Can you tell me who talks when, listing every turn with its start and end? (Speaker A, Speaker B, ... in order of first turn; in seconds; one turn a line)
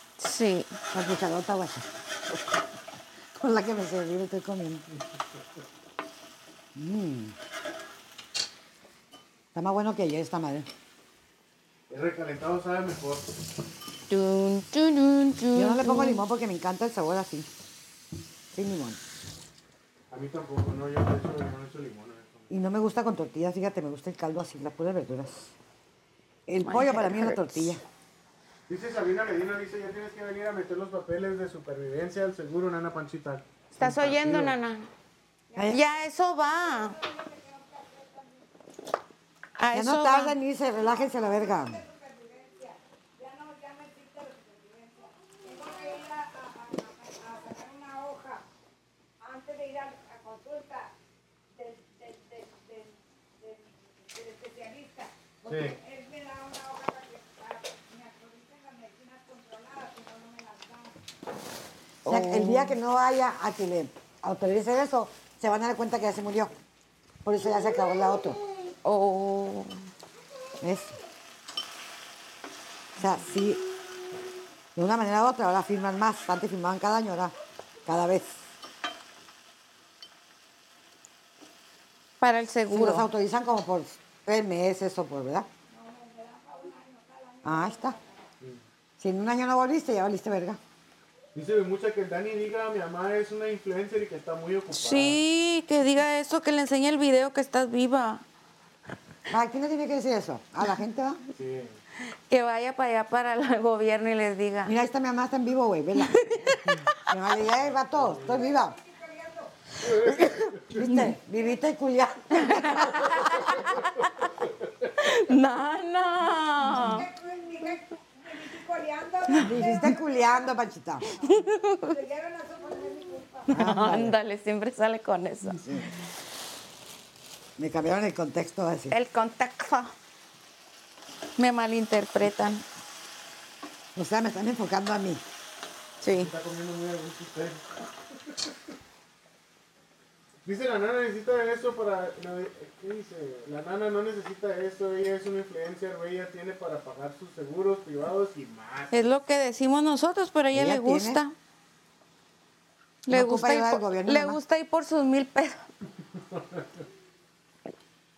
Speaker A: 0.2-0.8
Speaker B: 0.9-1.9
Speaker B: 3.4-4.8
Speaker B: 6.7-7.3
Speaker B: 9.5-10.7
Speaker C: 11.9-13.3
Speaker A: 14.1-16.2
Speaker B: 15.5-17.5
Speaker B: 18.5-19.0
Speaker C: 20.1-22.5
Speaker B: 22.5-25.5
Speaker B: 26.5-27.8
Speaker A: 26.6-27.7
Speaker C: 28.7-34.5
Speaker A: 33.8-34.9
Speaker D: 35.5-35.8
Speaker B: 35.5-35.8
Speaker A: 35.7-37.0
Speaker D: 36.6-38.5
Speaker A: 39.6-40.3
Speaker B: 39.7-41.8
Speaker D: 40.8-48.4
Speaker D: 49.2-50.9
Speaker D: 51.5-61.0
Speaker C: 55.5-55.8
Speaker A: 62.0-62.8
Speaker B: 62.0-66.5
Speaker B: 67.2-68.4
Speaker A: 68.8-69.8
Speaker B: 70.6-71.0
Speaker B: 73.0-73.6
Speaker B: 74.7-77.3
Speaker B: 77.8-78.4
Speaker A: 82.2-83.1
Speaker B: 82.7-85.5
Speaker D: 85.7-88.3
Speaker B: 87.4-88.0
Speaker B: 89.0-90.6
Speaker C: 91.3-95.2
Speaker A: 94.7-98.2
Speaker B: 99.3-101.2
Speaker C: 101.3-101.7
Speaker A: 102.0-104.8
Speaker B: 104.6-108.8
Speaker A: 106.0-107.0
Speaker C: 107.8-108.3
Speaker D: 108.2-109.5
Speaker C: 109.8-110.8
Speaker B: 110.1-113.5
Speaker A: 112.3-114.1
Speaker A: 115.0-117.1
Speaker D: 116.7-123.5
Speaker A: 119.3-119.9
Speaker B: 119.4-121.1
Speaker A: 121.2-122.0
Speaker A: 123.5-125.8
Speaker B: 123.5-124.1
Speaker B: 125.5-125.9
Speaker B: 127.6-128.9
Speaker A: 128.9-129.9
Speaker A: 131.4-132.6
Speaker B: 133.9-135.2
Speaker A: 136.0-136.3
Speaker C: 136.1-137.7
Speaker C: 140.4-148.9
Speaker A: 148.9-151.3
Speaker B: 150.5-151.2
Speaker A: 153.1-155.6
Speaker B: 153.1-154.4
Speaker C: 156.2-156.7